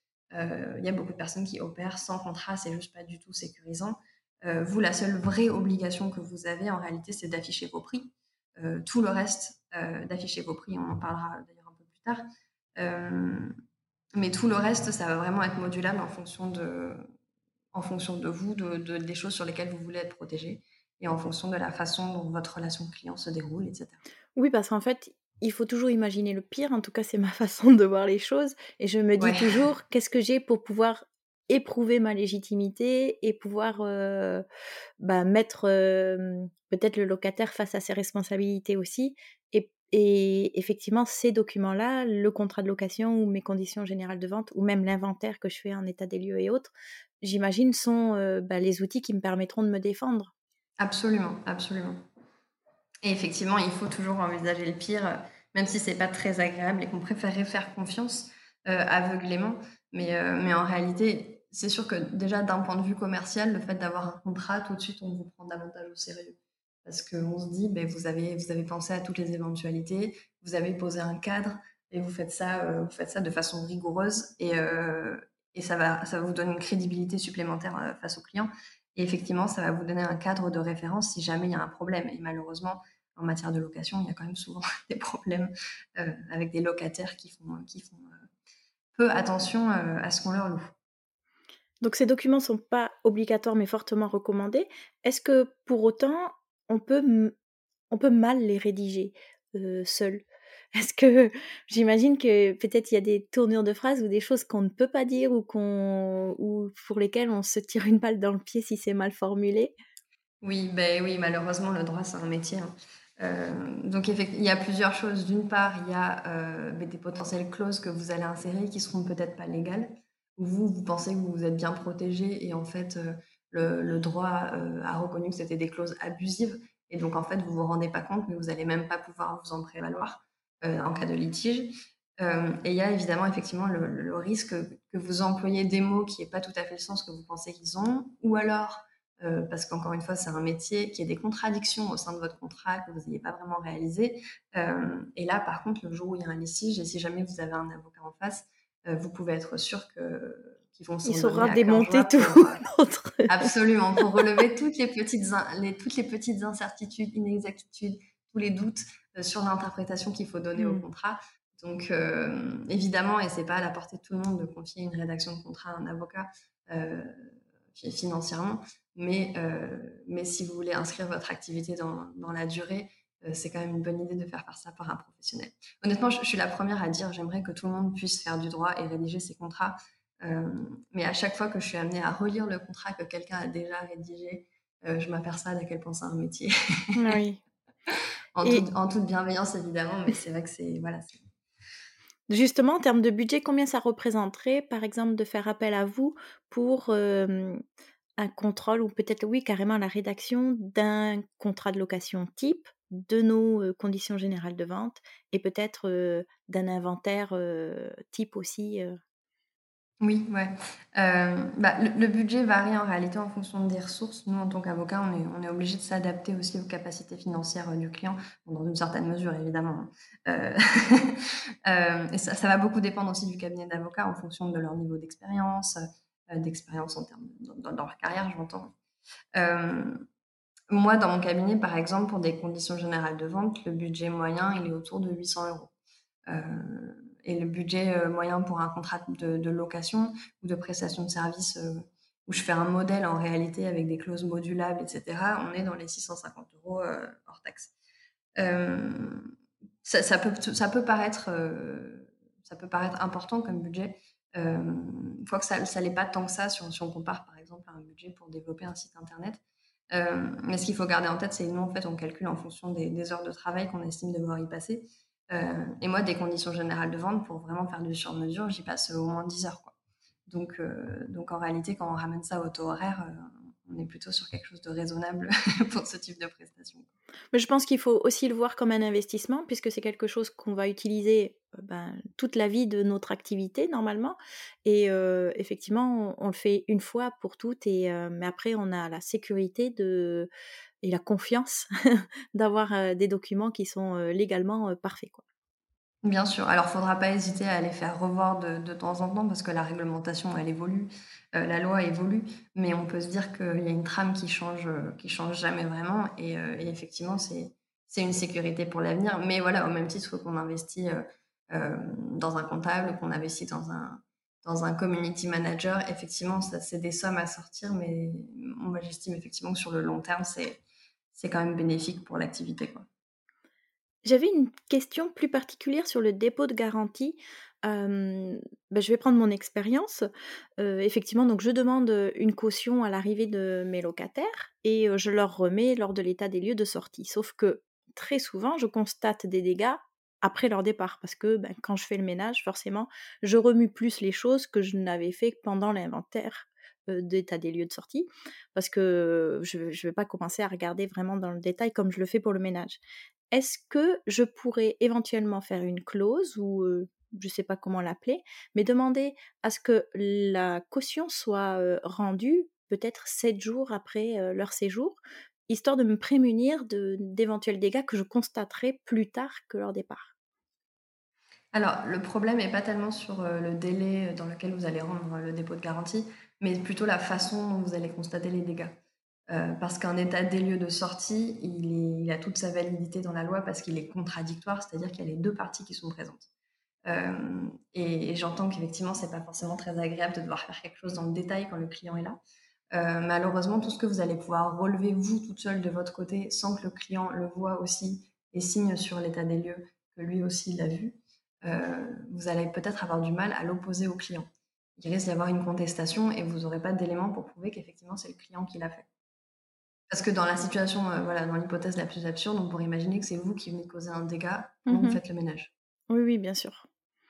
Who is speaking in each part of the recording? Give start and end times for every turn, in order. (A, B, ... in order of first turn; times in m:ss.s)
0:00.3-0:12.2 A
0:12.8-0:13.5 A
0:14.1-0:17.0 A
0:17.7-0:24.0 A
0:24.4-0:34.4 B
0:29.2-0:29.6 A
0:35.0-0:46.7 B
0:47.2-0:50.3 B
0:50.8-0:52.0 A
0:53.0-1:28.2 A
1:29.0-1:30.7 A
1:31.8-1:37.3 B
1:37.9-1:49.7 B
1:50.4-2:32.6 A
2:31.0-2:33.5 B
2:33.3-3:06.9 A
2:40.6-2:40.8 B
3:06.9-3:07.4 B
3:08.3-3:11.2 A
3:12.3-3:17.6 B
3:18.2-3:29.0 B
3:30.0-3:48.7 A
3:49.3-3:50.0 A
3:50.7-3:55.7 A
3:56.3-4:07.7 A
4:08.4-4:09.3 A
4:09.8-4:19.4 A
4:19.9-4:29.7 A
4:30.3-4:36.9 A
4:37.3-4:50.3 B
4:50.8-4:55.2 B
4:56.0-5:20.6 A
5:21.1-5:22.9 A
5:24.0-5:30.1 B
5:30.6-5:52.8 B
5:53.3-6:10.1 B
6:11.5-6:18.7 A
6:19.3-6:26.3 A
6:26.9-6:32.2 A
6:32.7-6:48.9 A
6:49.9-6:55.5 A
6:54.7-6:55.0 B
6:55.9-6:56.7 B